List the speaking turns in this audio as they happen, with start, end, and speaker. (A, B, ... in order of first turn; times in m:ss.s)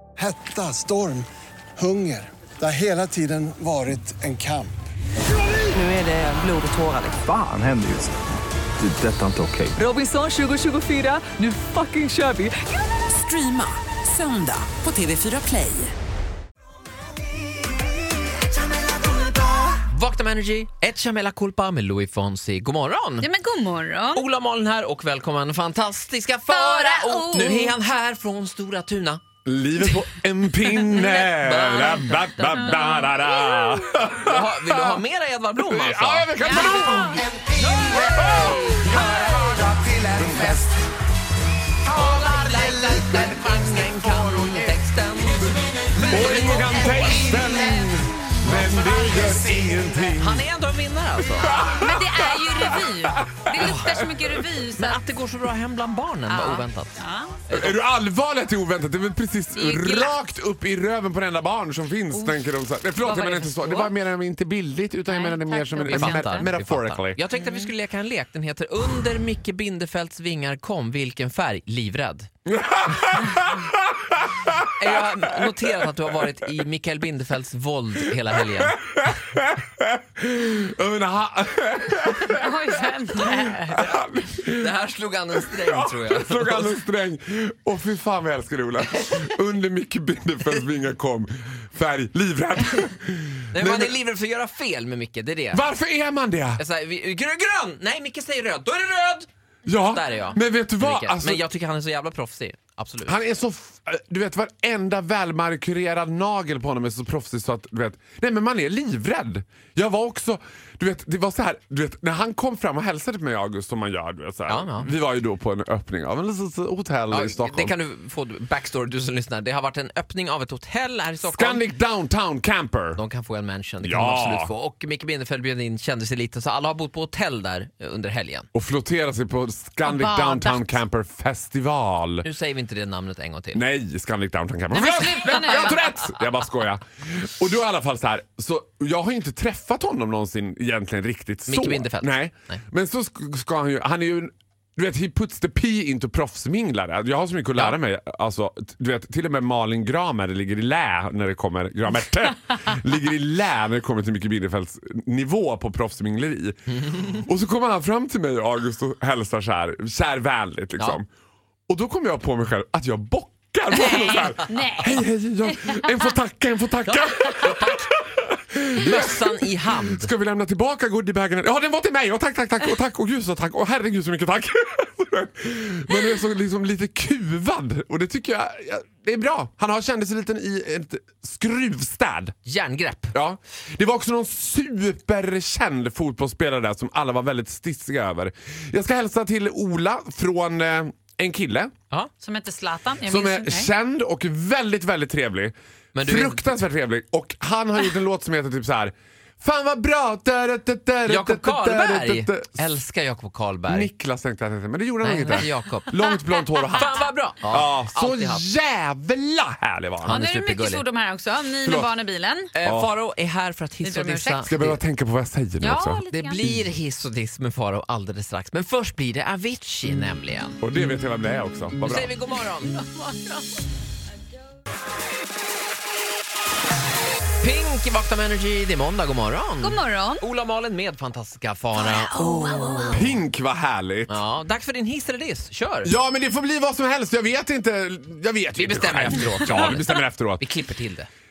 0:00.2-0:04.7 A
0:05.7-0:07.2 B
0:07.1-0:08.2 C
0:08.8-0:09.8 C
0:09.8-0:15.9 B
0:19.9-0:23.3 D
0:23.2-0:24.2 E
0:24.1-0:29.2 D
0:26.5-0:27.7 E
0:27.4-0:27.7 F
0:29.4-0:35.0 F
0:30.8-0:32.5 D
0:32.4-0:33.4 E
0:34.2-0:37.0 D
0:35.6-0:37.3 F
0:36.4-0:37.2 E
0:37.6-0:38.8 D
0:37.8-0:39.0 F
0:38.2-0:39.3 E
0:40.1-0:40.7 F
0:41.8-0:47.4 D
0:46.0-0:47.9 E
0:46.0-0:50.4 F
0:50.2-0:51.6 D
0:51.4-0:54.2 F
0:51.4-0:55.0 E
0:54.8-0:57.8 D
0:56.3-0:57.4 E
0:57.5-1:07.2 F
0:59.5-1:00.2 E
1:02.1-1:02.4 E
1:02.9-1:03.9 E
1:05.0-1:06.5 E
1:05.9-1:12.3 D
1:07.3-1:07.7 E
1:12.4-1:15.0 F
1:14.8-1:18.8 D
1:18.6-1:24.7 F
1:22.2-1:23.9 E
1:24.6-1:26.8 D
1:25.3-1:34.0 F
1:33.5-1:35.7 D
1:35.5-1:36.6 F
1:36.6-1:43.2 D
1:39.6-1:41.4 F
1:43.0-1:57.7 F
1:54.5-1:54.9 D
1:57.1-2:01.7 D
2:01.2-2:03.0 F
2:03.0-2:08.5 D
2:03.8-2:04.5 F
2:08.5-2:12.3 F
2:09.8-2:10.7 E
2:12.2-2:13.6 D
2:13.5-2:41.1 F
2:14.7-2:15.8 E
2:21.5-2:22.6 D
2:41.7-3:02.3 F
2:43.8-2:46.1 E
2:46.8-2:47.9 D
2:48.8-2:50.1 D
3:02.4-3:03.1 D
3:03.1-3:11.7 F
3:12.2-3:13.7 E
3:13.0-3:22.8 F
3:15.9-3:16.5 D
3:21.0-3:23.9 D
3:23.7-3:30.2 F
3:25.0-3:26.0 D
3:25.9-3:27.1 E
3:26.7-3:28.4 D
3:30.0-3:30.8 D
3:30.0-3:32.5 E
3:31.6-3:31.9 F
3:32.5-3:34.8 D
3:32.6-3:32.9 F
3:33.8-3:34.5 E
3:34.4-3:36.0 F
3:35.6-3:36.6 E
3:36.1-3:40.6 D
3:40.6-3:42.1 F
3:41.8-3:42.7 D
3:42.7-3:43.4 E
3:47.4-3:53.1 D
3:49.6-3:50.2 E
3:51.9-3:53.0 E
3:52.9-3:54.2 F
3:54.1-3:55.9 D
3:55.8-4:00.4 F
3:58.6-4:01.1 D